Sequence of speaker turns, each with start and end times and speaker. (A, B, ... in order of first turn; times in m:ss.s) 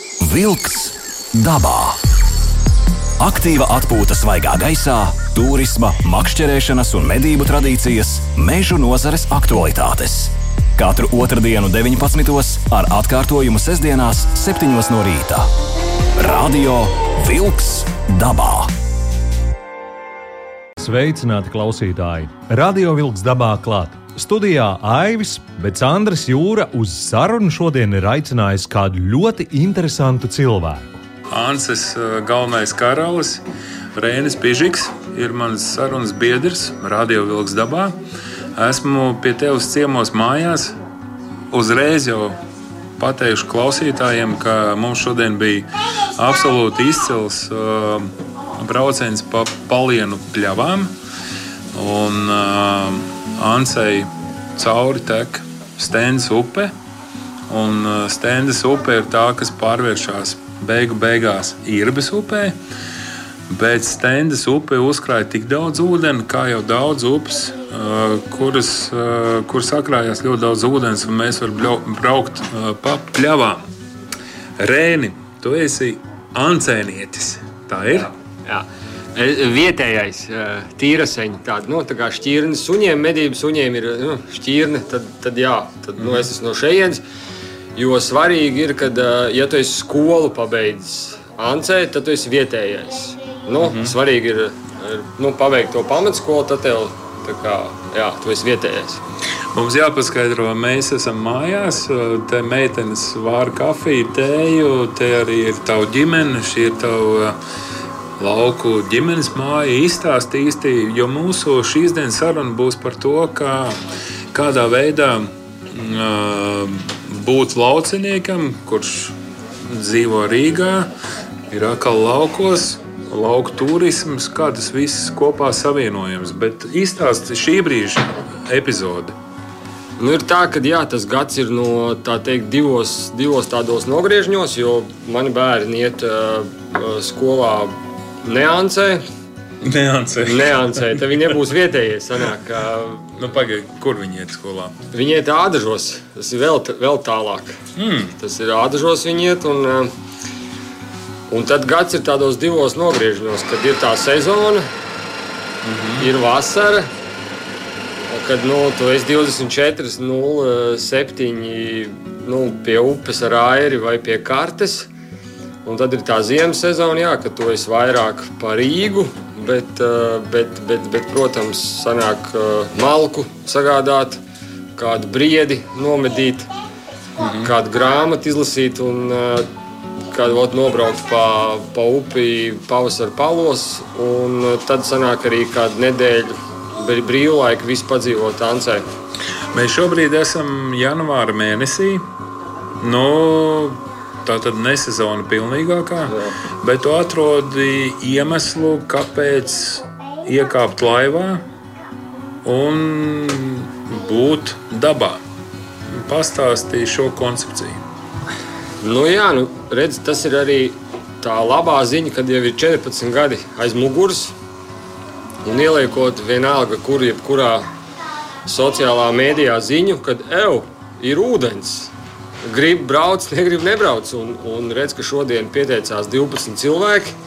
0:00.2-0:02.0 A
0:03.2-0:15.5 A
0:16.2-0:18.7 A
0:20.8-0:30.9 B
0:31.3-0:33.4 C
0:34.0-0:37.9 C
0:38.5-0:40.7 C
0:41.5-0:42.4 C
0:43.0-0:50.9 C
0:51.7-0:56.7 C
0:57.5-1:02.5 C
1:03.5-1:13.6 C
1:14.6-1:18.1 C
1:18.4-1:27.0 D
1:27.8-1:39.0 D
1:33.6-1:33.9 C
1:39.5-1:47.4 C
1:48.2-1:53.8 C
1:54.3-2:00.9 C
2:01.5-2:09.1 C
2:10.0-2:19.0 D
2:19.6-2:21.0 C
2:20.2-2:23.0 D
2:23.2-2:24.7 C
2:24.9-2:27.6 D
2:27.8-2:28.1 C
2:28.2-2:29.9 D
2:31.3-2:34.6 D
2:35.6-2:36.1 C
2:36.0-2:36.9 D
2:38.1-2:44.9 D
2:45.6-2:54.2 D
2:54.8-2:56.5 D
2:57.2-2:57.5 C
2:57.4-2:59.5 D
3:00.1-3:08.8 D
3:09.5-3:12.0 C
3:12.8-3:21.4 C
3:22.4-3:25.2 C
3:25.9-3:27.8 C
3:28.8-3:34.3 D
3:35.4-3:37.6 D
3:38.4-3:41.9 D
3:42.4-3:47.1 D